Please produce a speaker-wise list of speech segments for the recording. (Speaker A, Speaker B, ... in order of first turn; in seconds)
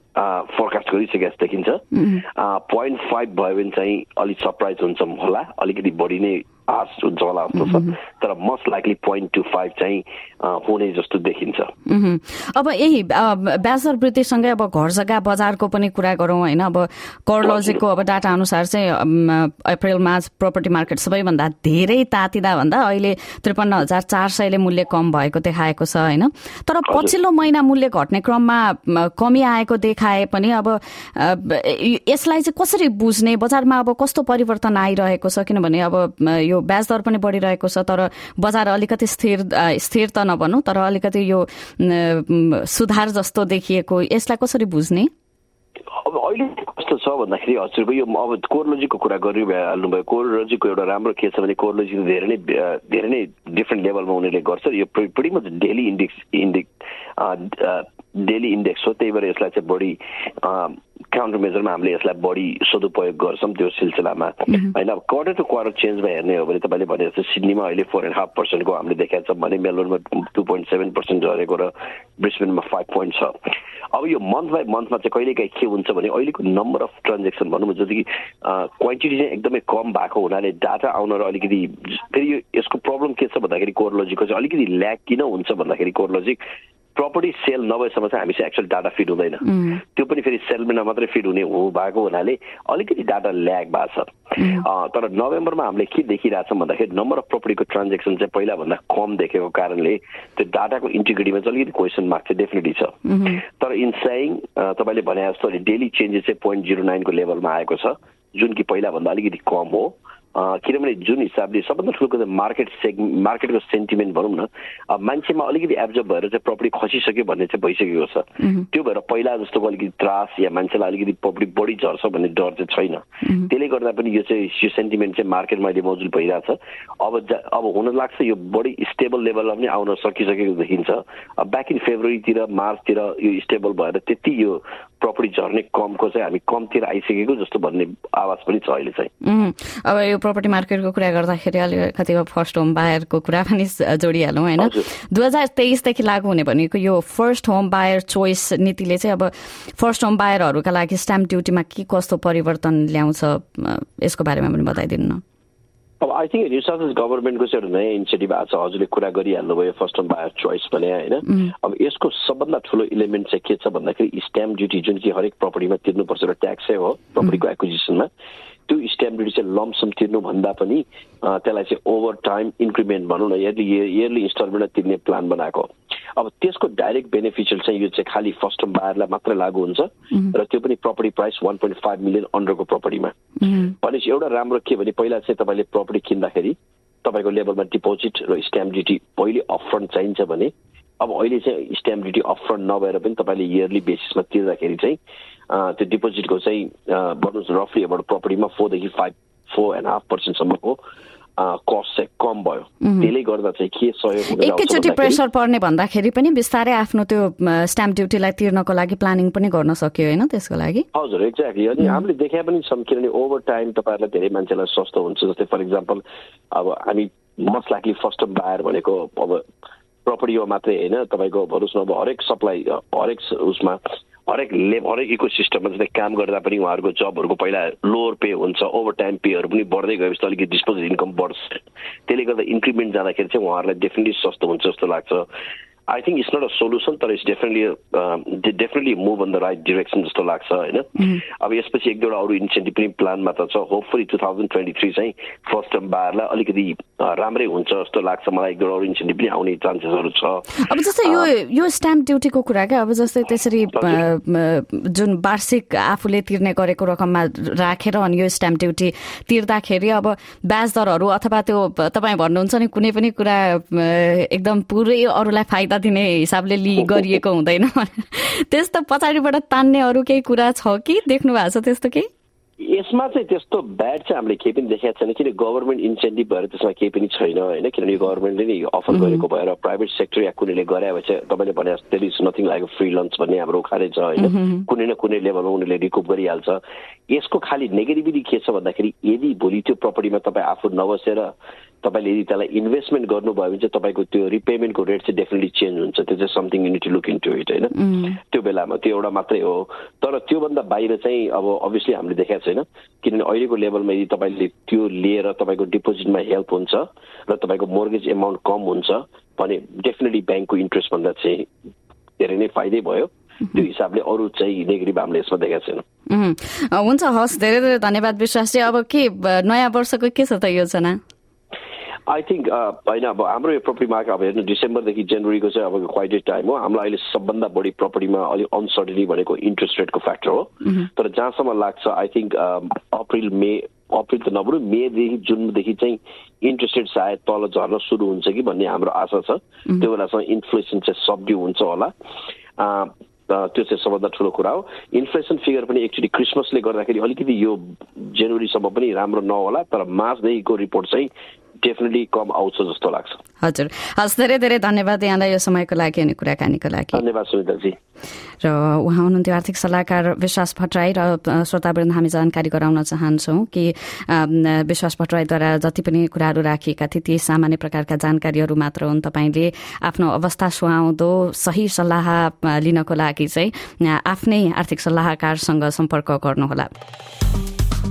Speaker A: 0.1-11.7, 17.4-17.8, 26.9-27.1, 45.9-73.3, 73.9-86.4, 87.0-103.0, 103.6-139.1, 144.6-144.9, 156.0-168.1, 168.7-183.1, 183.7-195.0, 195.5-200.8, 201.4-205.2, 210.9-219.4, 220.0-235.3, 235.9-250.5, 251.0-251.3, 253.7-254.0, 272.6-291.3, 291.8-311.5, 312.2-315.8, 322.1-341.9, 342.6-351.1, 351.6-353.2, 356.9-357.8
Speaker B: 1.9-2.2, 7.5-7.9, 11.9-45.1, 89.4-89.8, 94.4-94.7, 103.0-103.4, 139.2-155.2, 161.3-161.5, 183.4-183.7, 202.8-203.1, 204.3-210.8, 211.8-212.0, 250.5-272.1, 278.9-279.2, 284.2-284.6, 297.8-298.1, 316.1-321.0, 353.4-357.0, 358.4-376.7